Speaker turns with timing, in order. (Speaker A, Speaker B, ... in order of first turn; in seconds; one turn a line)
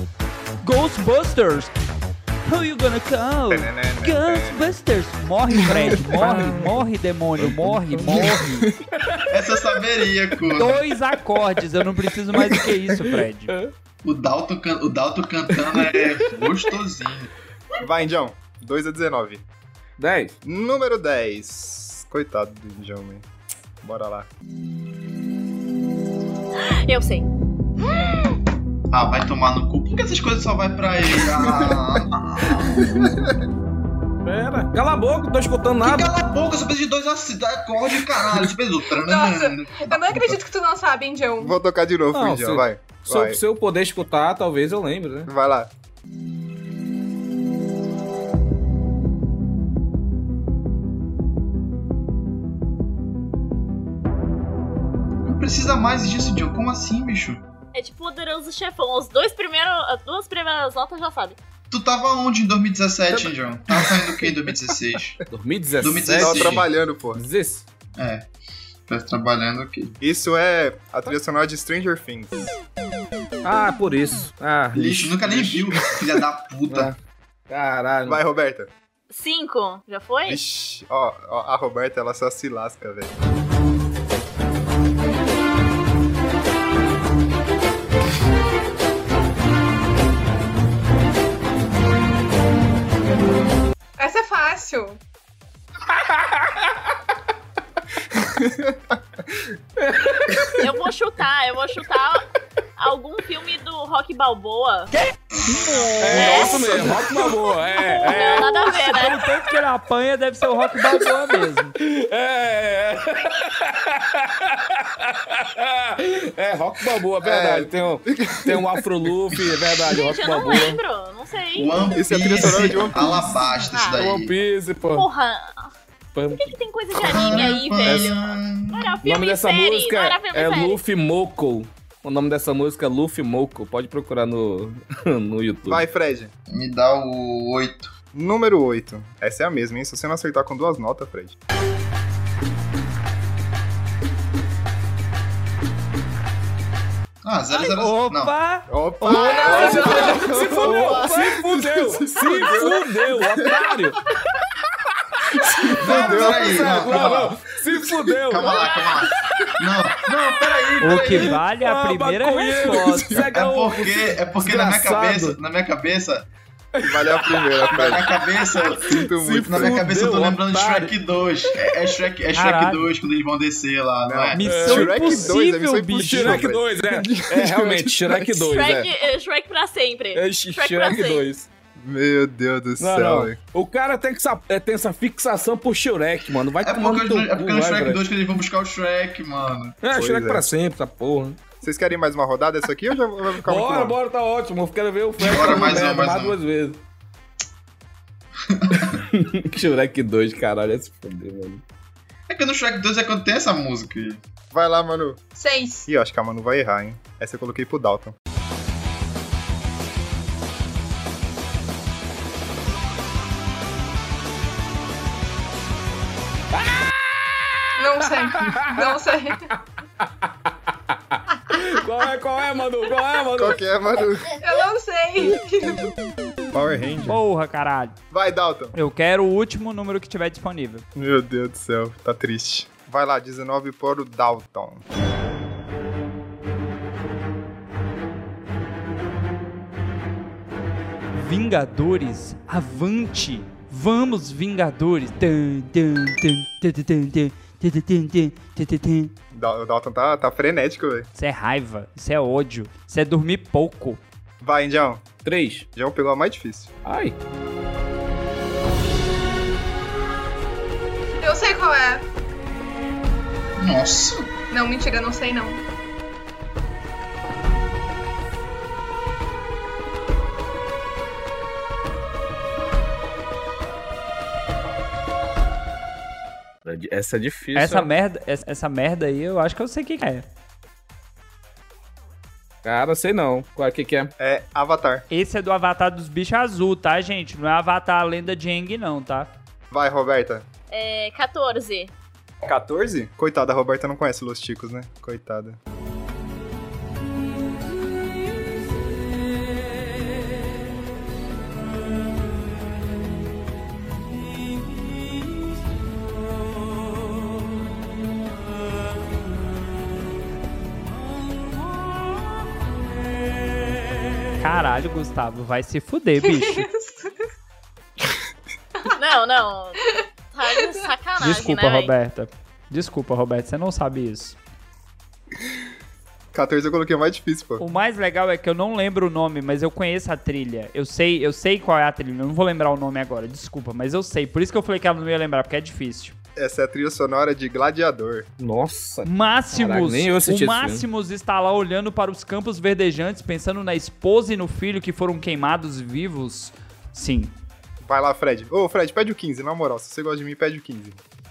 Speaker A: 0.6-1.7
Speaker A: 2.5-8.7
Speaker B: 3.5-4.8
Speaker C: 6.2-6.8
Speaker B: 8.0-8.7
Speaker D: 9.3-10.8
Speaker A: 10.5-13.5
Speaker D: 14.0-17.3
Speaker B: 17.8-19.4
Speaker C: 20.0-20.4
Speaker B: 20.4-23.2
Speaker B: 23.8-24.3
Speaker E: 26.6-27.3
Speaker D: 28.9-33.0
Speaker B: 31.3-31.8
Speaker B: 32.8-33.3
Speaker C: 34.2-36.1
Speaker D: 35.8-40.4
Speaker F: 38.9-41.6
Speaker B: 41.4-43.4
Speaker C: 42.1-45.3
Speaker B: 45.3-45.7
Speaker D: 55.2-57.4
Speaker E: 57.7-61.4
Speaker D: 61.7-65.2
Speaker B: 64.0-64.2
Speaker C: 65.3-67.6
Speaker D: 65.8-66.6
Speaker B: 66.1-67.2
Speaker D: 68.0-68.3
Speaker D: 68.9-70.0
Speaker B: 70.0-72.5
Speaker C: 73.4-75.6
Speaker D: 74.7-76.9
Speaker C: 76.7-77.0
Speaker C: 77.5-78.2
Speaker B: 78.0-78.7
Speaker E: 79.1-80.4
Speaker B: 80.2-83.1
Speaker F: 94.0-95.0
Speaker C: 95.9-96.8
Speaker B: 98.1-99.0
Speaker C: 99.8-100.6
Speaker E: 100.6-102.2
Speaker E: 102.8-104.9
Speaker D: 105.5-106.1
Speaker A: 105.5-106.5
Speaker C: 106.0-108.6
Speaker E: 106.1-106.8
Speaker E: 108.0-109.2
Speaker A: 108.3-111.7
Speaker C: 111.8-120.8
Speaker B: 117.2-118.8
Speaker E: 119.9-122.0
Speaker D: 121.5-124.3
Speaker B: 121.9-123.3
Speaker E: 123.7-124.0
Speaker C: 123.9-125.1
Speaker E: 124.9-125.7
Speaker C: 126.1-126.6
Speaker E: 126.3-130.8
Speaker D: 126.9-128.9
Speaker C: 127.1-128.2
Speaker C: 129.0-135.8
Speaker B: 135.7-136.3
Speaker D: 136.5-137.9
Speaker B: 138.1-141.3
Speaker D: 147.2-148.3
Speaker A: 147.5-150.2
Speaker B: 148.7-153.7
Speaker C: 149.1-154.0
Speaker F: 149.6-150.5
Speaker A: 152.2-152.7
Speaker B: 155.4-157.1
Speaker C: 155.4-159.2
Speaker D: 155.8-157.4
Speaker D: 158.2-161.4
Speaker C: 160.0-165.4
Speaker A: 160.8-163.2
Speaker B: 162.9-163.2
Speaker D: 163.3-166.3
Speaker C: 166.8-168.0
Speaker B: 166.8-168.0
Speaker D: 167.7-168.9
Speaker C: 168.5-170.9
Speaker B: 168.7-169.7
Speaker D: 169.5-174.4
Speaker A: 172.3-172.8
Speaker B: 174.0-178.4
Speaker A: 174.3-176.5
Speaker C: 174.4-175.3
Speaker C: 176.0-178.9
Speaker E: 178.5-181.2
Speaker C: 180.1-181.5
Speaker B: 181.8-183.4
Speaker C: 182.8-188.0
Speaker D: 186.6-189.8
Speaker C: 189.8-191.4
Speaker B: 189.9-190.5
Speaker B: 191.6-194.0
Speaker C: 193.4-196.8
Speaker D: 195.2-196.4
Speaker D: 198.4-199.0
Speaker C: 198.9-201.6
Speaker D: 202.3-204.2
Speaker B: 204.5-205.2
Speaker F: 205.3-205.8
Speaker B: 205.8-208.1
Speaker C: 216.5-223.6
Speaker F: 217.8-219.5
Speaker B: 223.3-224.3
Speaker F: 224.4-225.9
Speaker B: 226.5-227.2
Speaker A: 227.1-228.0
Speaker B: 228.1-228.8
Speaker A: 228.7-230.8
Speaker B: 230.9-234.8
Speaker A: 241.1-249.1
Speaker B: 249.3-251.1
Speaker A: 251.1-254.0
Speaker B: 254.4-255.1
Speaker C: 255.2-255.7
Speaker B: 255.7-256.7
Speaker C: 256.8-257.1
Speaker F: 261.2-262.0
Speaker D: 263.6-264.3
Speaker F: 264.5-265.6
Speaker C: 276.6-277.9
Speaker A: 277.5-280.2
Speaker C: 282.6-284.1
Speaker B: 284.2-285.0
Speaker A: 285.1-289.3
Speaker B: 289.7-290.5
Speaker E: 290.7-291.9
Speaker B: 292.4-295.6
Speaker A: 314.4-316.7
Speaker F: 316.2-317.2
Speaker E: 318.9-321.9
Speaker F: 319.9-320.9
Speaker A: 321.2-324.4
Speaker B: 326.3-327.6
Speaker A: 327.6-336.1
Speaker B: 336.4-338.3
Speaker C: 338.4-340.9
Speaker A: 339.0-347.3
Speaker B: 347.8-351.0